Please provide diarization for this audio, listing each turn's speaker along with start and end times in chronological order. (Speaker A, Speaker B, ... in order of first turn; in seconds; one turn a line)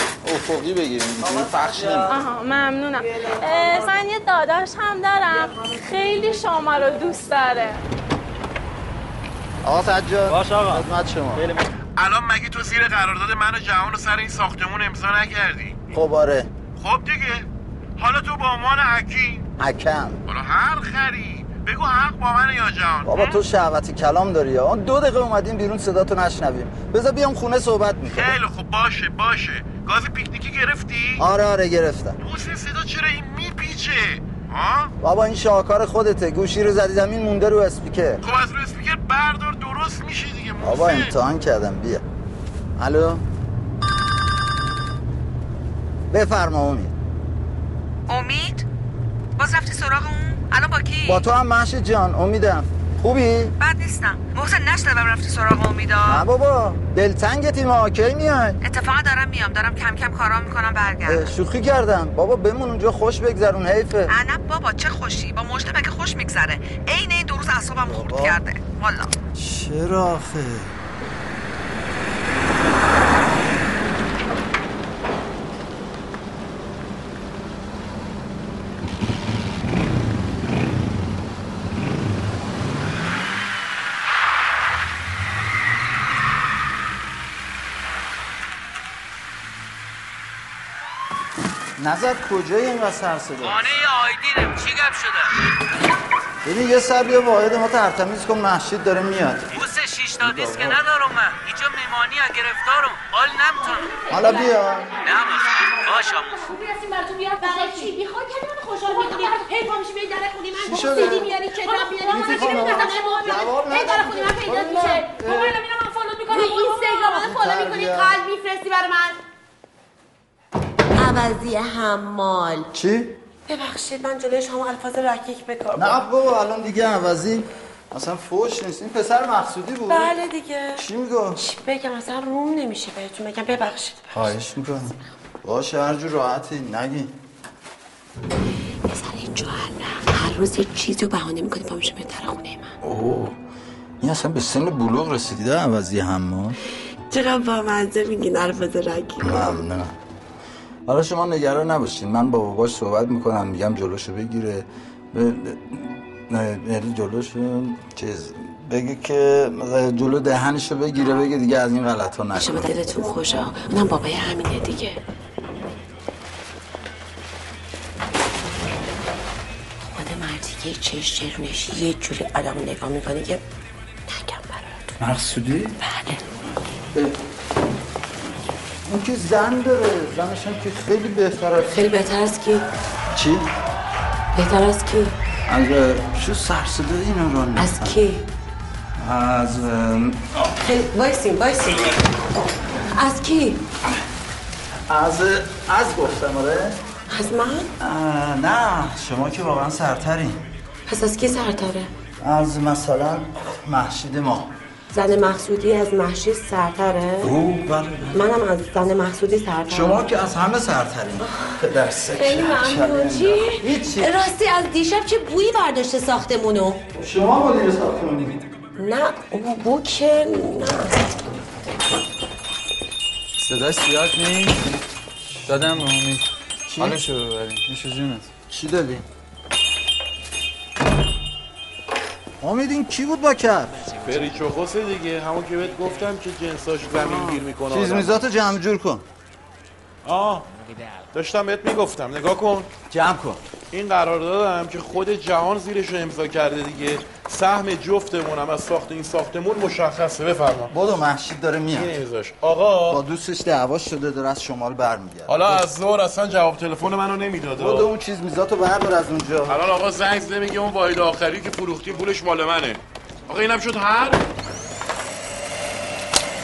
Speaker A: 0.2-2.1
Speaker B: 2.0-7.8
Speaker A: 9.6-11.4
Speaker C: 12.0-15.8
Speaker A: 15.9-16.5
Speaker C: 16.8-17.4
Speaker C: 18.0-19.5
Speaker A: 19.6-20.2
Speaker C: 20.3-23.1
Speaker A: 23.0-28.3
Speaker C: 28.1-31.2
Speaker A: 31.2-32.2
Speaker C: 32.2-34.9
Speaker A: 35.0-38.2
Speaker C: 38.2-41.1
Speaker A: 40.6-42.0
Speaker A: 42.8-43.2
Speaker A: 46.1-46.9
Speaker D: 48.1-48.6
Speaker D: 49.4-51.2
Speaker A: 51.1-53.5
Speaker D: 53.6-56.2
Speaker A: 56.0-58.6
Speaker D: 58.6-61.3
Speaker A: 61.0-64.2
Speaker D: 64.1-69.1
Speaker A: 67.8-68.4
Speaker A: 69.3-70.7
Speaker A: 91.8-93.7
Speaker E: 93.7-95.3
Speaker A: 96.4-99.5
Speaker E: 99.6-103.8
Speaker A: 100.2-100.8
Speaker C: 100.4-100.7
Speaker A: 104.1-104.9
Speaker E: 105.0-106.6
Speaker F: 106.5-109.5
Speaker G: 107.4-108.0
Speaker G: 109.0-109.8
Speaker A: 110.6-111.4
Speaker F: 111.7-112.2
Speaker A: 112.0-115.6
Speaker G: 112.0-112.7
Speaker F: 113.0-116.8
Speaker G: 116.2-119.1
Speaker A: 117.1-118.2
Speaker G: 121.0-122.7
Speaker A: 122.7-123.2
Speaker G: 123.5-126.1
Speaker A: 125.7-130.2
Speaker G: 129.9-130.8
Speaker A: 130.8-131.4
Speaker G: 131.4-134.2
Speaker A: 134.1-137.1
Speaker G: 138.9-142.8
Speaker A: 142.8-143.3
Speaker A: 144.0-146.6
Speaker G: 147.1-149.6
Speaker A: 149.2-149.9
Speaker A: 150.9-162.7
Speaker G: 162.4-165.0
Speaker G: 169.8-173.4
Speaker G: 174.1-175.0
Speaker A: 175.0-175.8
Speaker G: 175.8-176.3
Speaker A: 178.9-181.8
Speaker G: 181.7-182.7
Speaker A: 183.1-183.5
Speaker G: 184.3-185.2
Speaker A: 185.5-188.0
Speaker G: 187.6-188.2
Speaker A: 189.0-190.4
Speaker G: 190.6-192.1
Speaker G: 192.9-193.6
Speaker A: 194.9-196.8
Speaker G: 197.1-197.7
Speaker A: 197.8-200.4
Speaker G: 200.9-201.9
Speaker A: 202.2-204.5
Speaker G: 204.9-207.4
Speaker A: 207.2-208.2
Speaker G: 208.1-210.1
Speaker A: 209.7-214.2
Speaker G: 211.2-216.8
Speaker A: 216.9-218.4
Speaker G: 218.8-221.0
Speaker H: 223.4-224.7
Speaker H: 225.5-228.3
Speaker A: 226.7-227.0
Speaker A: 228.5-229.1
Speaker A: 232.4-233.7
Speaker C: 234.0-238.2
Speaker A: 236.9-239.1
Speaker C: 240.1-240.5
Speaker C: 241.1-242.7
Speaker A: 242.9-243.4
Speaker C: 243.7-250.7
Speaker A: 250.7-251.9
Speaker C: 251.7-253.0
Speaker A: 252.9-255.6
Speaker C: 255.3-257.9
Speaker A: 257.6-259.6
Speaker C: 259.5-264.2